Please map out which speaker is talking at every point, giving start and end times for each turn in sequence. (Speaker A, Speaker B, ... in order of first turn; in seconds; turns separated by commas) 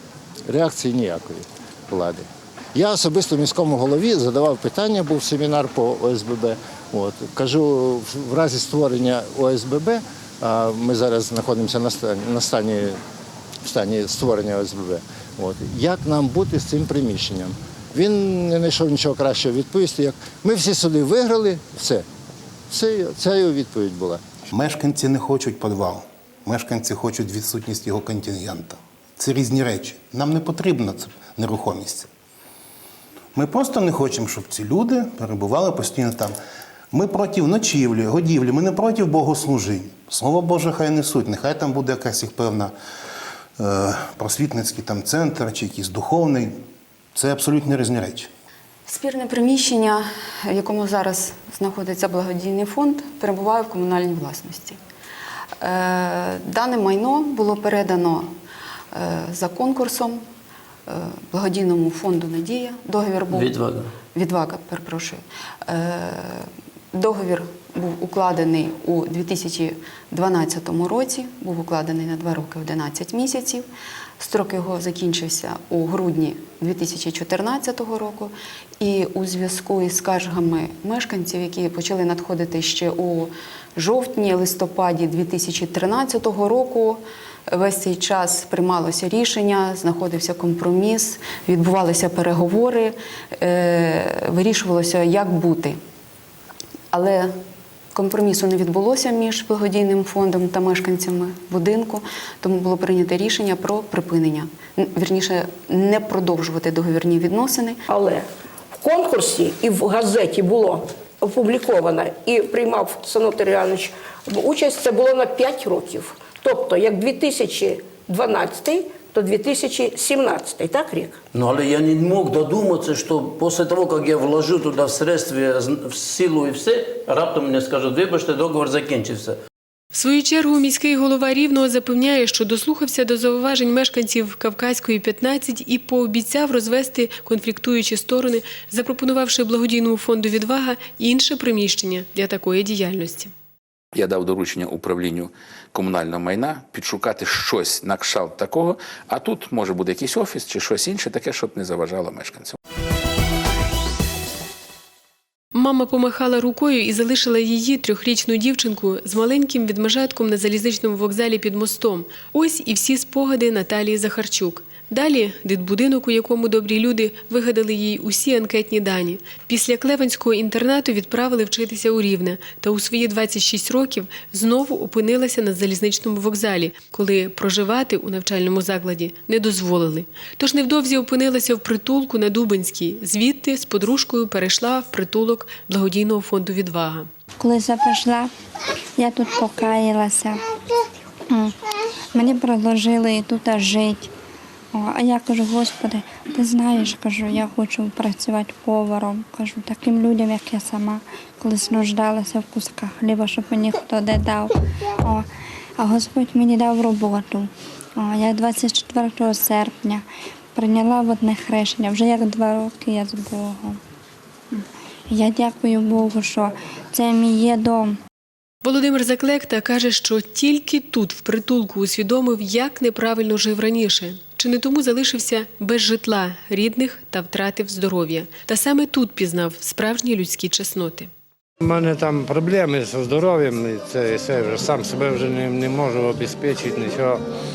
Speaker A: 0.5-13.0, Speaker A: 13.7-22.1, Speaker A: 22.7-24.2, Speaker B: 24.5-32.1, Speaker B: 33.4-36.4, Speaker B: 36.9-42.7, Speaker B: 43.6-46.6, Speaker B: 47.1-48.3, Speaker C: 48.9-54.8, Speaker C: 55.6-58.3, Speaker C: 58.9-60.2, Speaker C: 60.9-63.5, Speaker D: 63.3-63.9, Speaker C: 64.2-73.7, Speaker C: 74.2-95.8, Speaker C: 96.9-97.4, Speaker C: 97.9-107.8, Speaker E: 107.9-121.2, Speaker D: 121.3-129.4, Speaker F: 129.9-143.3, Speaker G: 143.9-152.6, Speaker F: 155.5-187.1, Speaker H: 187.4-188.3, Speaker H: 189.0-190.4, Speaker H: 191.3-191.6, Speaker H: 192.1-194.1, Speaker H: 194.7-205.3, Speaker H: 205.8-213.8, Speaker H: 214.5-218.0, Speaker F: 218.6-231.1, Speaker I: 231.6-237.2